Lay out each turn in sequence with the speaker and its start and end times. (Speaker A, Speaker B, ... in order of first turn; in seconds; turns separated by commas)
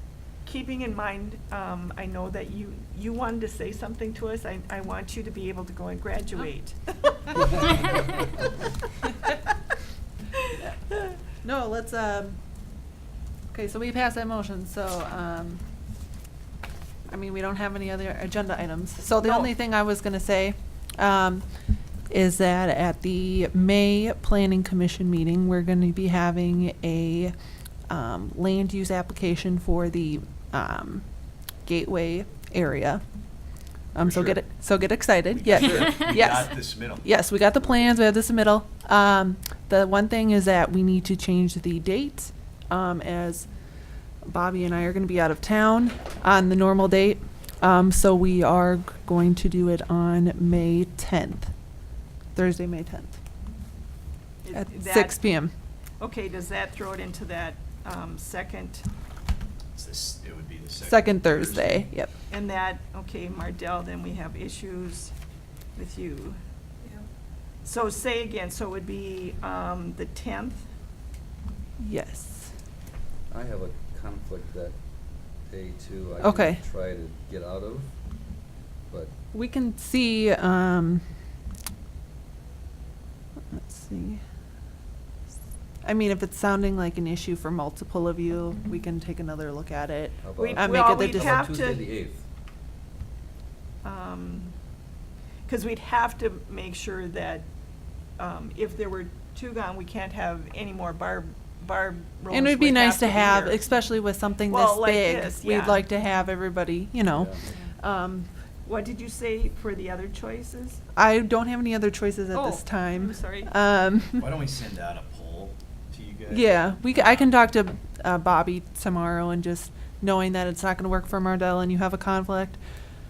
Speaker A: 0.4-7.8, Speaker A: 10.6-11.2, Speaker B: 11.4-12.4, Speaker B: 13.5-15.6, Speaker B: 17.1-21.5, Speaker A: 19.2-19.5, Speaker B: 22.1-27.3, Speaker B: 27.9-31.1, Speaker B: 31.6-33.0, Speaker B: 33.9-43.5, Speaker C: 34.0-34.4, Speaker C: 35.3-37.0, Speaker B: 44.2-51.5, Speaker B: 52.3-53.2, Speaker A: 54.4-55.2, Speaker B: 54.5-55.5, Speaker A: 56.0-58.9, Speaker C: 59.7-61.9, Speaker B: 60.8-62.1, Speaker A: 62.3-65.1, Speaker A: 65.7-66.4, Speaker A: 67.6-70.7, Speaker B: 71.8-72.5, Speaker D: 73.3-74.8, Speaker D: 75.4-78.0, Speaker B: 76.2-76.6, Speaker B: 79.3-81.0, Speaker B: 83.5-84.2, Speaker B: 85.8-91.4, Speaker D: 90.2-92.2, Speaker A: 90.3-91.9, Speaker A: 93.8-94.5, Speaker A: 95.5-97.5, Speaker A: 98.2-103.6, Speaker B: 102.3-108.3, Speaker A: 104.5-105.8, Speaker D: 107.1-107.4, Speaker A: 108.6-110.8, Speaker B: 111.0-114.3, Speaker A: 112.3-113.5, Speaker C: 114.2-117.3, Speaker B: 116.3-122.6